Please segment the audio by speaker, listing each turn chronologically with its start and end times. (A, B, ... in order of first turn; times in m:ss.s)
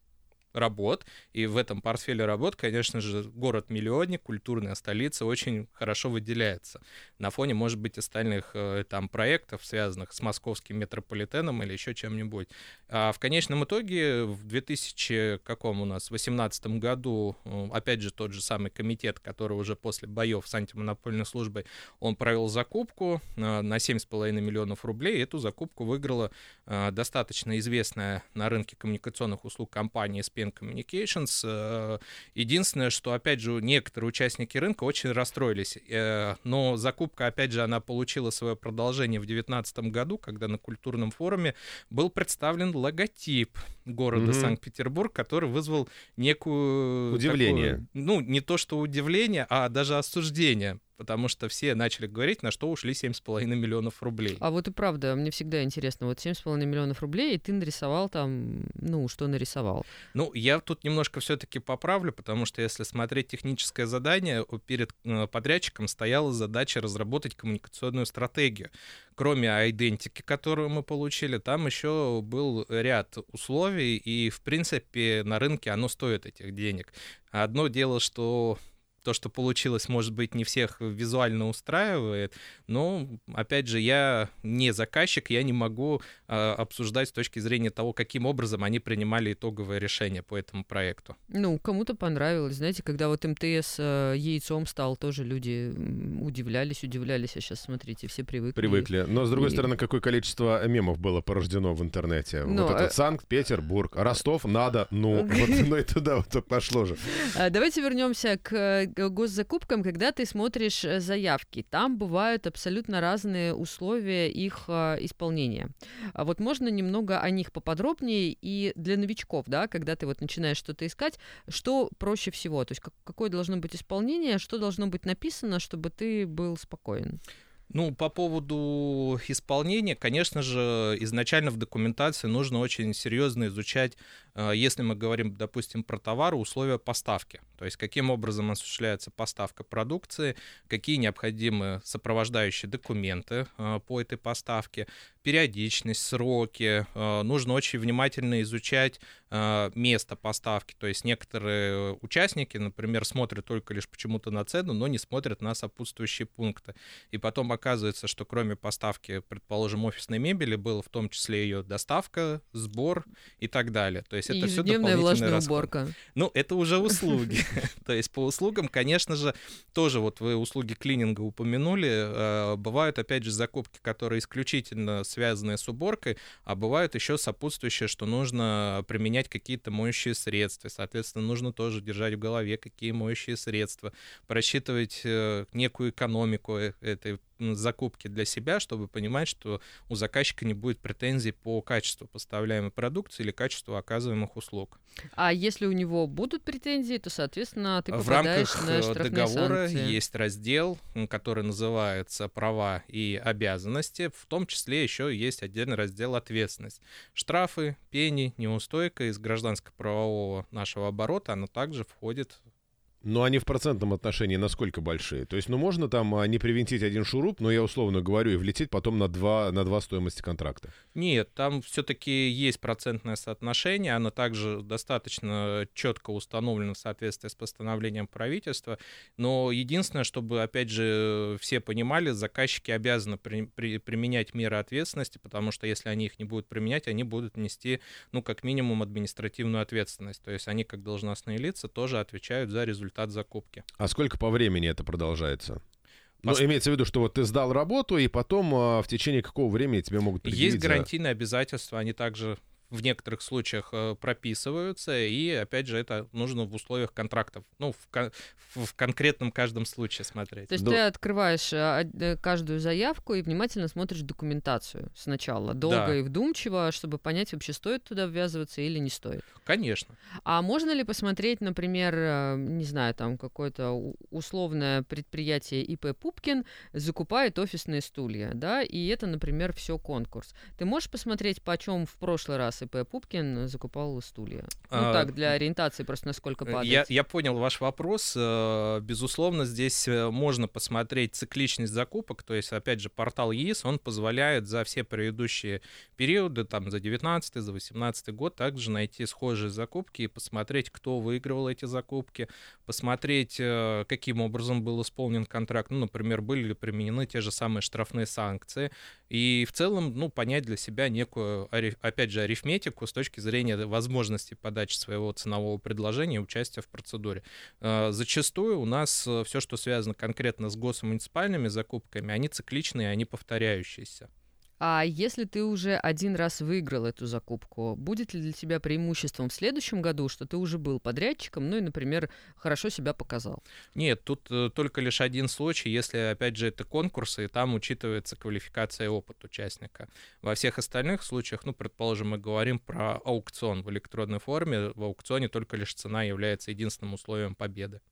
0:00.5-0:54.4 A
0:44.1-0:44.6 B
0:47.1-0:47.8 B
0:54.4-0:59.9 C
1:00.1-1:31.2 A
1:31.3-1:39.7 C
1:38.6-1:47.1 B
1:42.4-1:42.9 C
1:45.1-1:45.7 C
1:47.1-2:07.2 C
2:07.7-3:14.8 A
2:44.3-2:46.0 C
3:15.2-3:20.0 C
3:17.9-3:32.4 A
3:33.0-3:40.7 B
3:40.9-4:03.6 A
4:03.8-4:05.6 B
4:06.2-4:10.9 B
4:10.2-4:20.5 A
4:20.5-4:29.2 C
4:25.7-4:26.0 A
4:29.4-4:30.0 A
4:30.2-4:46.9 C
4:44.7-4:45.1 A
4:46.5-5:24.1 A
5:24.6-5:33.4 C
5:33.8-5:47.8 A